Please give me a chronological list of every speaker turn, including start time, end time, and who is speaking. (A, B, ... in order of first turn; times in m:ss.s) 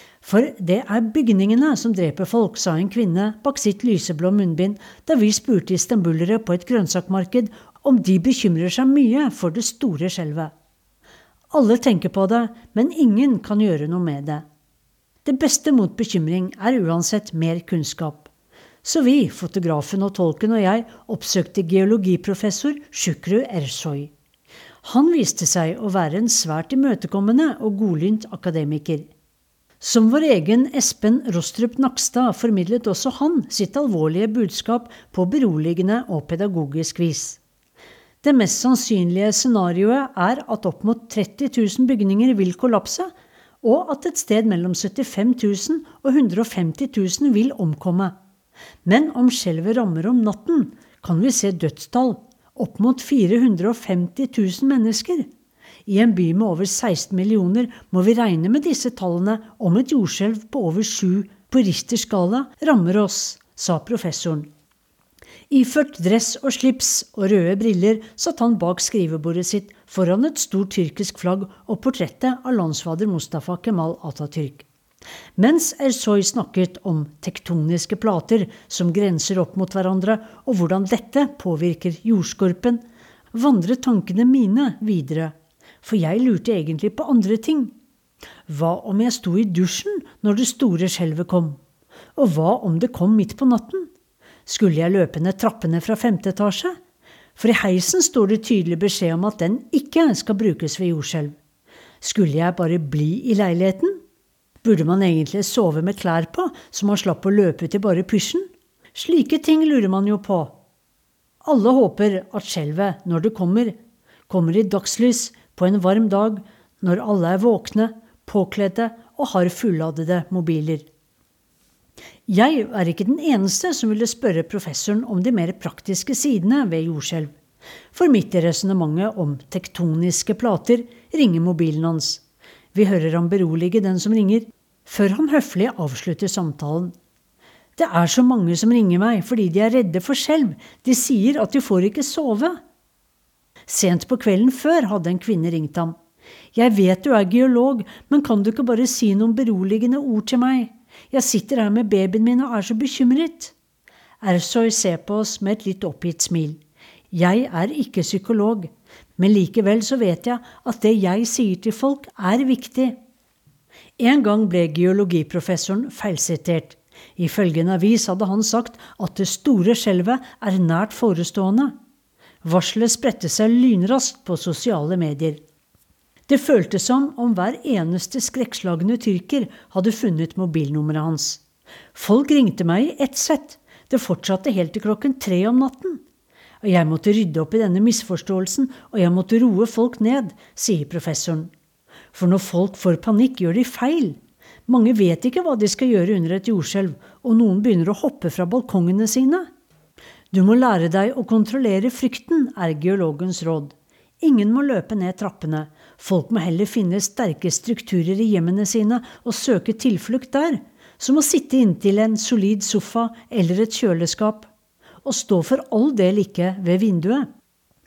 0:00.2-0:10.5 A
0:11.5-0:14.4 A
0:15.2-0:18.3 A
0:18.8-0:24.1 A
0:24.8-0:29.1 A
0:29.8-0:37.4 A
0:38.2-0:48.2 A
0:48.8-0:55.3 A
0:55.9-1:04.5 A
1:05.5-1:14.6 A
1:15.4-1:27.7 A
1:28.5-1:31.6 A
1:32.2-1:33.9 A
1:34.5-1:36.8 A
1:37.4-1:41.4 A
1:42.0-1:44.0 A
1:44.6-1:50.6 A
1:51.4-1:53.8 A
1:54.3-2:00.8 A
2:02.3-2:07.3 A
2:07.9-2:12.2 A
2:12.7-2:16.9 A
2:17.8-2:22.6 A
2:23.7-2:26.0 A
2:26.5-2:33.5 A
2:34.2-2:36.6 A
2:37.1-2:43.0 A
2:44.0-2:51.8 A
2:52.4-2:55.4 A
2:56.3-3:01.4 A
3:01.9-3:06.0 A
3:06.6-3:11.5 A
3:12.1-3:19.5 A
3:20.3-3:34.5 A
3:35.0-3:37.3 A